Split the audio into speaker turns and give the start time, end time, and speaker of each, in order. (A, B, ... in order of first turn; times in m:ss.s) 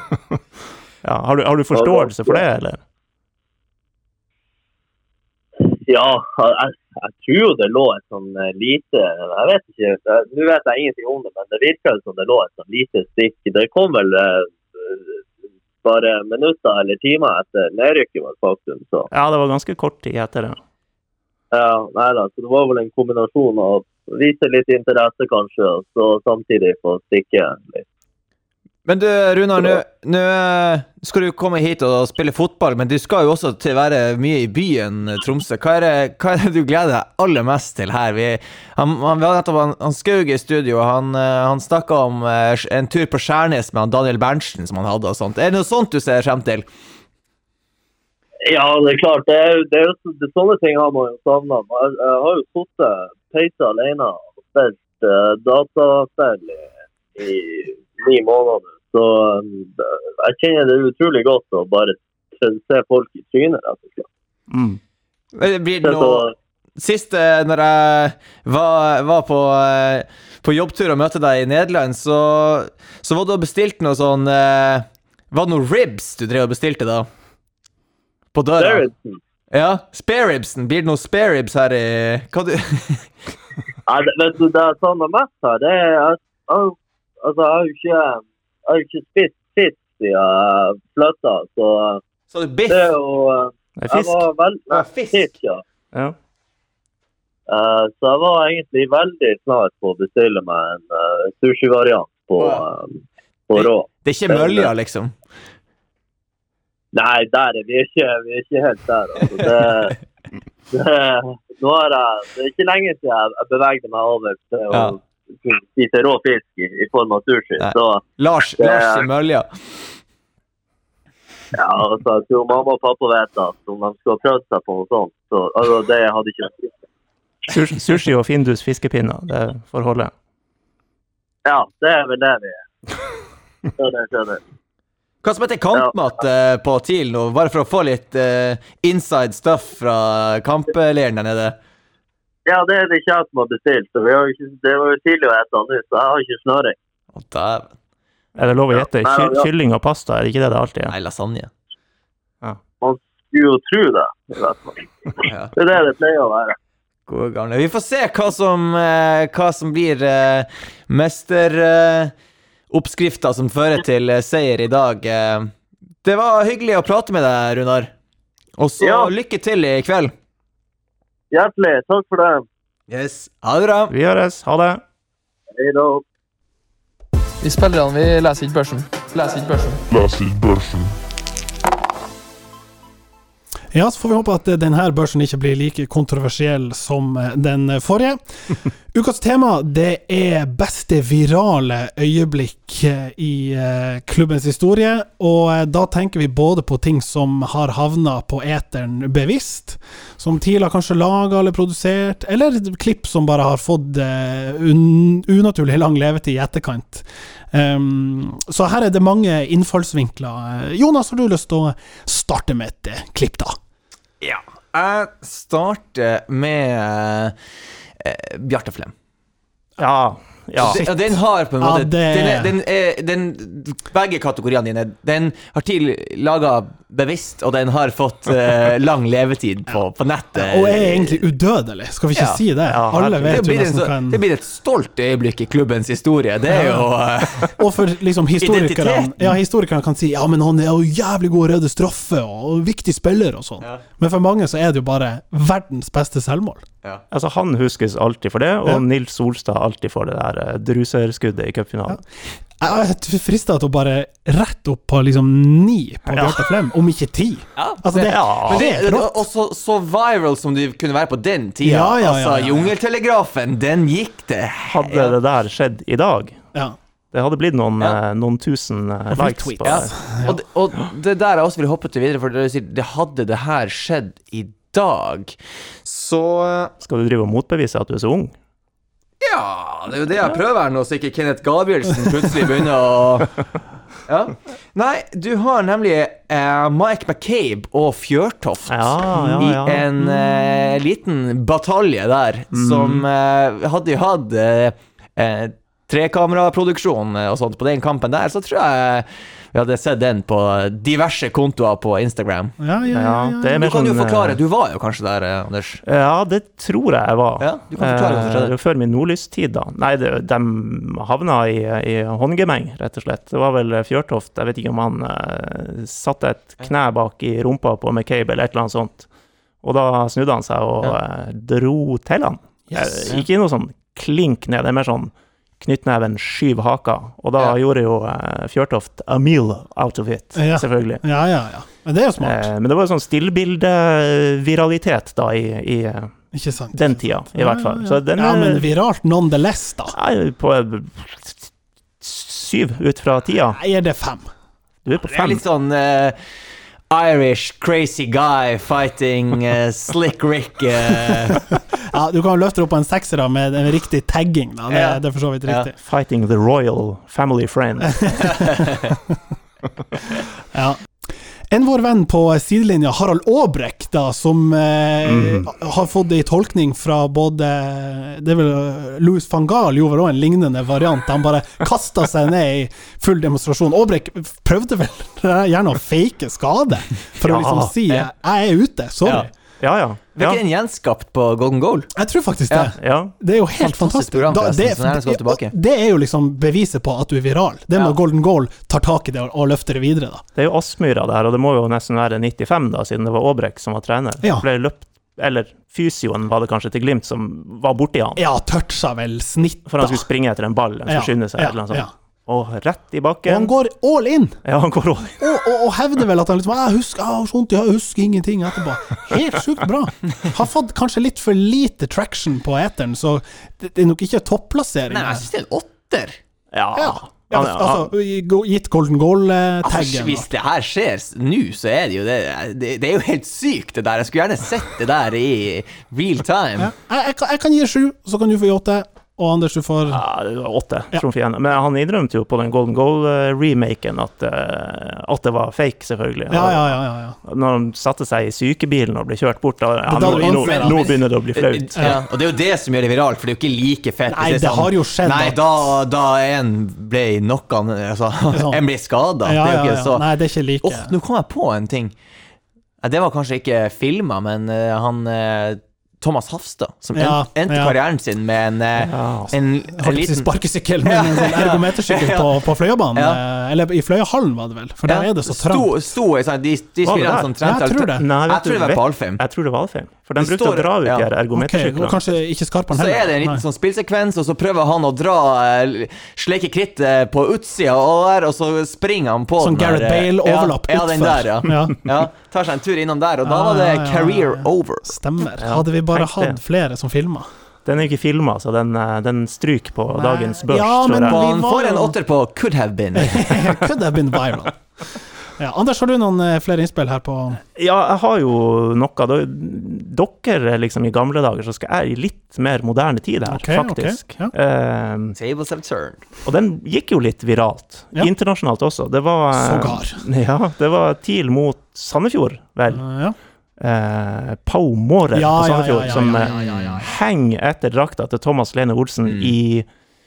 0:01.0-0:02.8 A
0:01.7-0:02.4 B
0:05.6-0:15.2 B
0:15.8-0:19.1 B
0:19.1-0:20.6 A
0:21.5-0:27.8 B
0:28.8-0:46.7 C
0:48.4-1:04.1 B
1:04.5-1:04.8 A
1:05.3-1:06.2 C
1:05.8-1:06.3 B
1:06.8-1:17.1 C
1:18.3-1:18.8 C
1:18.6-1:19.2 B
1:19.5-1:23.1 C
1:23.9-1:32.0 B
1:32.3-1:32.9 C
1:32.7-1:35.6 B
1:33.8-1:34.2 A
1:34.7-1:35.3 C
1:37.5-1:43.0 B
1:42.4-1:42.6 C
1:43.5-1:44.7 B
1:43.5-1:45.1 C
1:46.9-1:49.9 B
1:50.7-1:58.0 B
1:54.7-1:55.0 C
1:57.6-1:59.5 C
1:58.6-1:59.0 B
2:01.5-2:06.7 B
2:07.5-2:10.1 A
2:11.4-2:12.6 B
2:13.8-2:14.4 B
2:15.2-2:21.6 C
2:22.4-2:26.8 B
2:27.1-2:27.7 C
2:28.4-2:30.9 A
2:29.0-2:29.5 B
2:30.9-2:31.5 C
2:32.8-2:36.6 B
2:35.3-2:35.5 C
2:37.1-2:42.1 C
2:42.7-2:45.5 C
2:46.0-2:47.9 C
2:48.6-2:50.1 C
2:48.8-2:49.1 B
2:51.3-2:52.4 B
2:52.9-2:53.9 C
2:53.9-2:54.8 A
2:55.6-2:56.0 B
2:57.4-2:59.8 D
3:03.7-3:08.2 E
3:08.9-3:33.6 E
3:34.2-3:37.3 C
3:38.0-3:38.9 C
3:39.8-3:40.8 A
3:40.6-3:51.2 C
3:40.6-3:42.5 E
3:50.3-3:54.2 E
3:52.1-3:52.4 C
3:52.7-3:53.4 A
3:53.2-3:57.5 C
3:56.5-3:56.9 E
3:57.6-4:06.6 E
3:58.4-3:59.3 C
4:07.1-4:12.0 A
4:12.6-4:19.2 E
4:16.1-4:16.4 A
4:17.6-4:25.2 C
4:18.0-4:18.7 A
4:21.6-4:22.7 E
4:24.7-4:26.4 A
4:27.1-4:29.9 A
4:29.1-4:30.3 E
4:29.6-4:36.7 C
4:36.8-4:38.3 A
4:39.2-4:43.3 C
4:44.1-5:02.6 C
4:48.7-4:49.9 A
4:52.5-4:53.0 A
5:02.6-5:03.6 E
5:02.9-5:04.4 A
5:03.6-5:05.8 C
5:05.8-5:19.1 A
5:07.4-5:08.5 C
5:19.6-5:31.0 A
5:22.7-5:23.1 E
5:30.4-5:32.5 E
5:32.2-5:36.1 A
5:36.3-5:39.9 E
5:36.7-5:38.7 A
5:39.9-5:41.5 A
5:42.0-5:43.6 A
5:43.6-5:44.2 E
5:44.8-5:45.4 A
5:45.0-5:46.2 C
5:46.9-5:51.4 C
5:51.9-5:55.7 E
5:54.7-5:55.7 C
5:55.8-5:58.6 A
5:58.0-5:58.7 E
6:01.5-6:19.3 E
6:05.0-6:05.5 A
6:17.2-6:17.7 A
6:19.6-6:20.4 A
6:20.1-6:21.9 C
6:22.0-6:30.2 E
6:22.8-6:23.1 A
6:23.6-6:25.5 C
6:30.4-6:38.2 A
6:38.2-6:40.0 E
6:39.7-6:43.5 A
6:40.9-6:41.9 E
6:43.3-6:44.4 E
6:44.4-6:45.2 A
6:45.2-6:55.2 E
6:54.9-6:56.2 C
6:56.5-6:57.9 A
6:56.8-7:00.3 E
6:59.6-7:06.7 C
7:06.6-7:10.0 E
7:09.9-7:21.9 A
7:16.3-7:17.2 E
7:19.9-7:20.8 E
7:20.0-7:30.0 C
7:24.1-7:25.7 E
7:28.3-7:28.6 E
7:29.2-7:30.9 E
7:30.6-7:31.9 C
7:32.8-7:40.3 C
7:36.9-7:37.8 E
7:38.8-7:39.3 A
7:39.8-7:45.8 E
7:40.8-7:42.4 C
7:42.9-7:43.2 C
7:44.9-7:49.2 C
7:46.8-7:47.3 A
7:47.4-7:48.0 E
7:48.0-7:52.0 A
7:50.2-7:51.1 C
7:51.3-7:53.4 E
7:52.7-8:04.9 C
7:59.4-8:01.8 E
8:03.2-8:07.3 E
8:05.4-8:06.4 A
8:07.6-8:11.2 A
8:09.9-8:11.9 E
8:11.0-8:13.5 C
8:12.9-8:14.6 E
8:15.4-8:17.4 E
8:17.5-8:25.2 A
8:23.3-8:24.3 E
8:25.1-8:26.0 C
8:26.2-8:32.8 A
8:29.3-8:30.0 E
8:32.7-8:33.1 E
8:33.6-8:39.6 A
8:35.1-8:36.7 E
8:36.2-8:36.8 C
8:39.0-8:39.3 C